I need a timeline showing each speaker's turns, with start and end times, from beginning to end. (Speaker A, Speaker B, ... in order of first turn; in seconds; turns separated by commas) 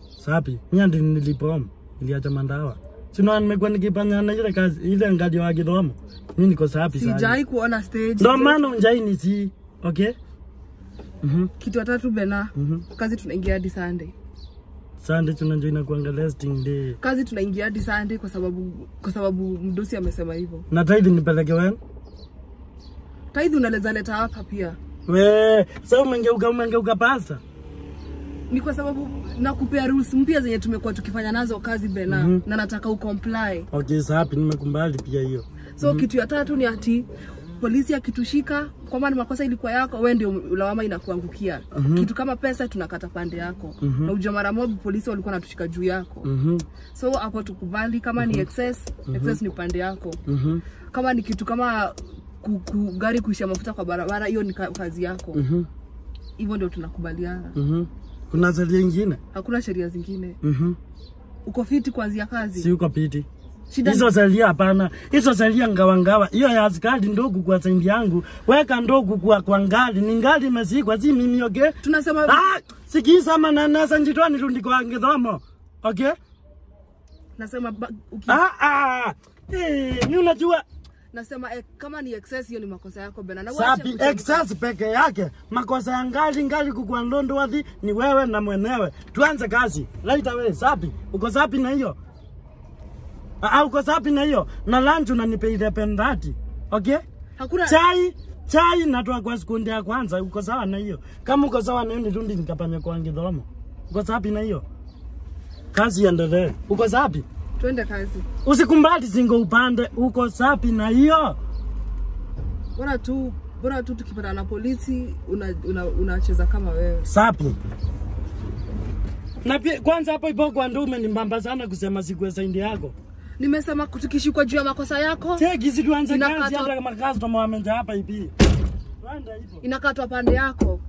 Speaker A: 0.2-7.4, Speaker B: 6.9-8.6, Speaker A: 8.2-10.1, Speaker A: 11.2-11.5, Speaker B: 11.6-14.1, Speaker A: 12.6-12.8, Speaker A: 15.0-17.0, Speaker B: 17.0-20.6, Speaker A: 20.7-21.8, Speaker B: 23.3-24.8, Speaker A: 25.1-27.4, Speaker B: 28.5-33.7, Speaker A: 32.1-32.4, Speaker A: 33.7-36.0, Speaker B: 35.8-37.1, Speaker B: 37.6-46.3, Speaker A: 41.7-42.1, Speaker A: 43.8-44.1, Speaker A: 46.2-46.6, Speaker B: 46.9-50.2, Speaker A: 48.2-48.5, Speaker A: 49.1-49.4, Speaker A: 50.3-50.6, Speaker B: 50.9-55.4, Speaker A: 55.3-55.7, Speaker B: 56.4-57.5, Speaker A: 57.5-59.2, Speaker B: 59.3-60.4, Speaker A: 60.4-60.8, Speaker B: 61.4-62.7, Speaker A: 62.6-63.2, Speaker B: 63.7-64.1, Speaker A: 63.8-71.8, Speaker B: 71.8-72.4, Speaker A: 72.3-76.1, Speaker B: 77.4-78.4, Speaker A: 78.3-80.6, Speaker B: 81.1-84.5, Speaker A: 83.5-92.0, Speaker A: 93.4-97.0, Speaker B: 97.4-97.8, Speaker A: 97.7-104.6, Speaker A: 105.7-107.2, Speaker B: 107.6-108.2, Speaker A: 108.4-111.4, Speaker B: 112.8-117.1, Speaker A: 117.0-117.5, Speaker A: 119.4-122.9, Speaker B: 123.4-125.5, Speaker A: 125.4-128.3, Speaker B: 126.1-126.7, Speaker A: 129.0-129.6, Speaker B: 129.6-130.8